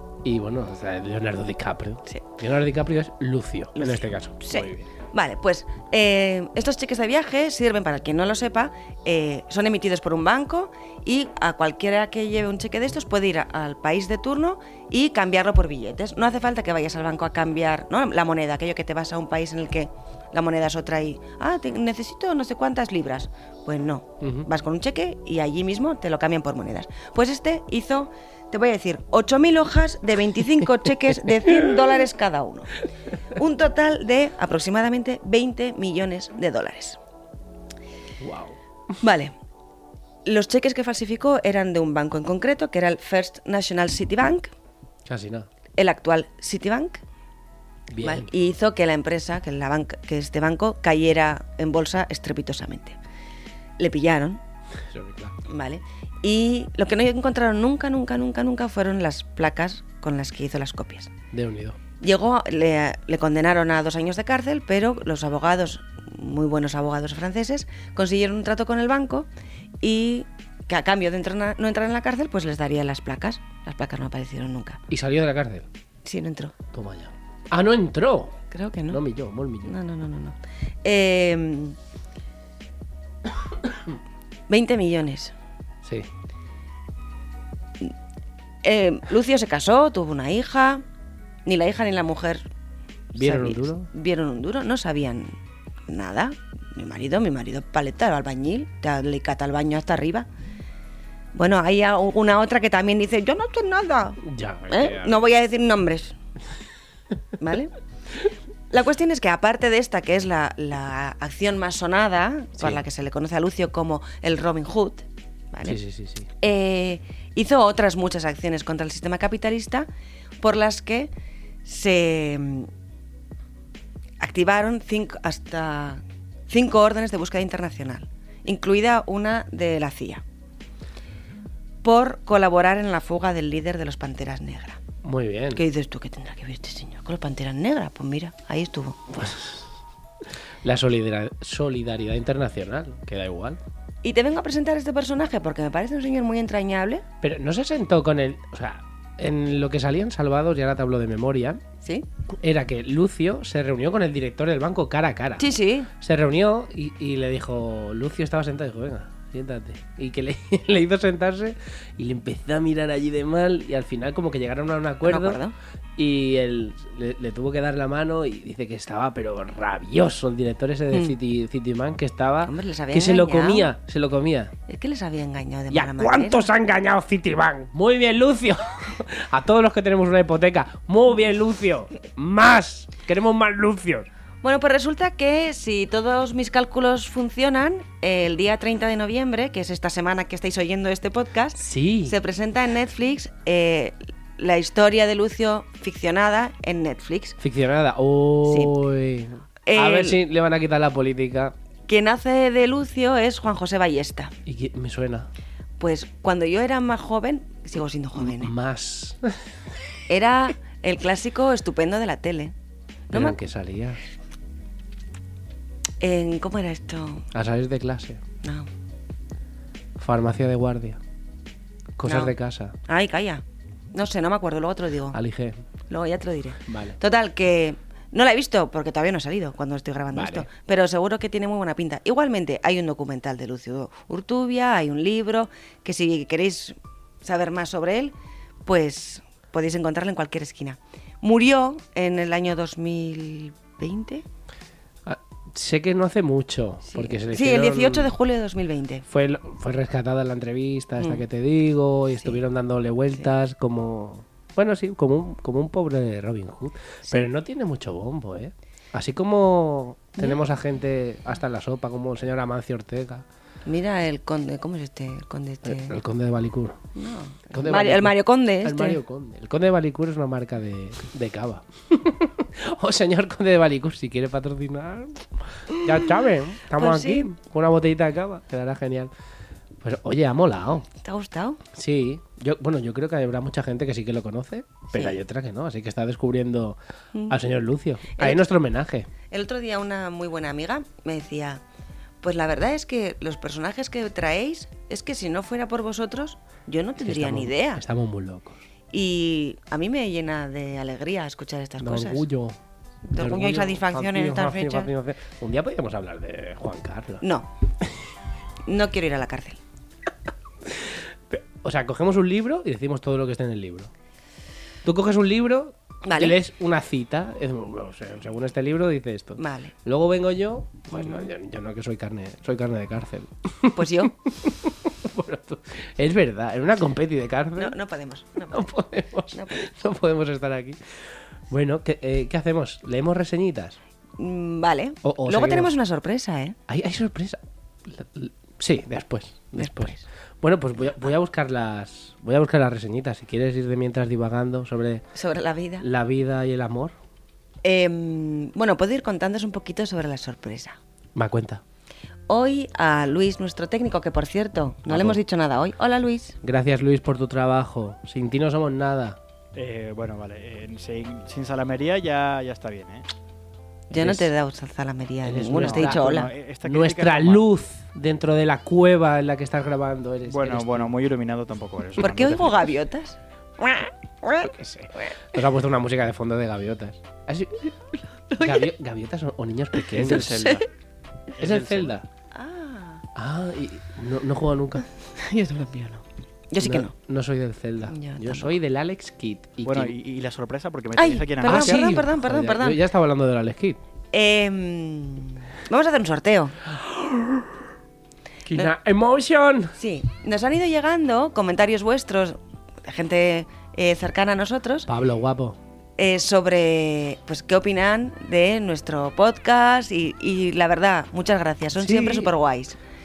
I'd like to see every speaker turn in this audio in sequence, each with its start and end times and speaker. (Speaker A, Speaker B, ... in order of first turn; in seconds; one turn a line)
Speaker A: 0.2-4.9
Speaker B: 3.8-37.0
Speaker A: 24.2-24.5
Speaker A: 38.2-38.6
Speaker B: 39.0-39.4
Speaker B: 40.2-44.5
Speaker A: 45.1-45.5
Speaker B: 45.8-47.0
Speaker A: 47.9-48.3
Speaker B: 48.0-53.0
Speaker B: 53.8-54.4
Speaker A: 54.9-55.4
Speaker B: 55.5-61.1
Speaker A: 61.3-61.8
Speaker B: 62.0-69.3
Speaker B: 69.8-74.8
Speaker A: 74.9-75.7
Speaker B: 76.0-76.6
Speaker A: 76.7-78.4
Speaker B: 78.5-79.0
Speaker A: 78.9-79.7
Speaker B: 79.6-81.8
Speaker B: 84.5-85.3
Speaker B: 88.6-90.8
Speaker B: 91.5-92.5
Speaker B: 93.1-95.4
Speaker A: 93.2-93.9
Speaker B: 95.9-100.3
Speaker B: 101.3-106.2
Speaker A: 104.2-105.3
Speaker B: 107.4-107.7
Speaker B: 108.7-115.8
Speaker A: 115.7-116.3
Speaker B: 116.4-119.9
Speaker B: 120.4-121.1
Speaker B: 121.6-122.7
Speaker B: 124.2-130.2
Speaker B: 131.8-134.8
Speaker A: 135.0-135.6
Speaker B: 135.5-139.2
Speaker A: 139.1-139.7
Speaker A: 140.6-143.6
Speaker B: 144.0-147.1
Speaker A: 147.2-151.6
Speaker A: 152.4-165.4
Speaker B: 155.4-155.9
Speaker B: 165.1-165.5
Speaker A: 166.0-174.5
Speaker B: 172.4-173.7
Speaker B: 174.7-176.5
Speaker A: 175.7-184.1
Speaker B: 184.4-197.4
Speaker A: 191.6-192.2
Speaker A: 197.4-201.5
Speaker B: 198.4-198.8
Speaker B: 199.7-200.2
Speaker B: 201.9-204.3
Speaker A: 204.5-205.3
Speaker B: 205.8-208.5
Speaker A: 208.2-209.4
Speaker B: 210.1-212.5
Speaker B: 213.1-213.4
Speaker A: 213.1-214.0
Speaker B: 216.0-217.3
Speaker A: 217.3-218.2
Speaker B: 218.4-218.7
Speaker A: 220.0-221.0
Speaker A: 222.0-222.8
Speaker B: 222.1-222.3
Speaker B: 222.9-225.2
Speaker A: 225.1-225.6
Speaker B: 225.9-244.2
Speaker A: 226.7-227.0
Speaker A: 230.1-230.5
Speaker A: 245.1-248.2
Speaker B: 246.9-249.1
Speaker A: 249.1-263.2
Speaker B: 263.7-266.0
Speaker A: 265.6-266.8
Speaker B: 266.9-269.0
Speaker A: 267.5-279.1
Speaker B: 276.8-277.3
Speaker A: 279.8-280.9
Speaker B: 281.0-281.6
Speaker A: 281.7-286.8
Speaker B: 284.9-285.2
Speaker A: 287.3-289.1
Speaker B: 288.2-288.5
Speaker B: 289.3-291.6
Speaker B: 292.2-297.8
Speaker A: 297.0-298.6
Speaker B: 298.9-302.2
Speaker A: 301.8-302.6
Speaker B: 303.1-304.9
Speaker A: 303.2-307.2
Speaker B: 307.2-307.5
Speaker B: 308.7-309.6
Speaker A: 310.7-313.9
Speaker A: 314.8-327.8
Speaker B: 316.0-316.4
Speaker B: 319.4-319.7
Speaker B: 320.9-321.3
Speaker B: 323.7-324.1
Speaker B: 327.6-328.7
Speaker A: 328.5-330.8
Speaker B: 329.3-329.7
Speaker A: 331.5-333.8
Speaker B: 334.2-336.6
Speaker A: 335.0-335.7
Speaker A: 336.7-345.0
Speaker B: 339.6-340.0
Speaker B: 345.1-345.9
Speaker A: 345.8-347.0
Speaker B: 347.6-350.8
Speaker A: 351.1-351.6
Speaker B: 352.3-356.4
Speaker A: 354.9-355.2
Speaker A: 356.4-359.2
Speaker C: 359.5-363.1
Speaker B: 363.9-366.3
Speaker A: 363.9-364.3
Speaker A: 365.2-370.9
Speaker C: 365.5-367.5
Speaker C: 370.3-372.7
Speaker B: 372.0-374.5
Speaker A: 374.4-377.7
Speaker B: 378.3-378.6
Speaker A: 378.4-380.6
Speaker C: 379.9-380.7
Speaker B: 380.4-380.6
Speaker C: 381.4-382.0
Speaker A: 381.4-382.1
Speaker B: 382.3-383.0
Speaker A: 383.1-384.9
Speaker B: 385.1-386.9
Speaker A: 386.6-389.9
Speaker B: 387.9-388.5
Speaker C: 389.6-392.0
Speaker B: 390.9-392.8
Speaker A: 391.4-393.8
Speaker B: 394.1-396.8
Speaker A: 398.5-399.8
Speaker B: 399.8-404.9
Speaker A: 404.9-405.6
Speaker B: 406.0-412.8
Speaker A: 411.8-412.3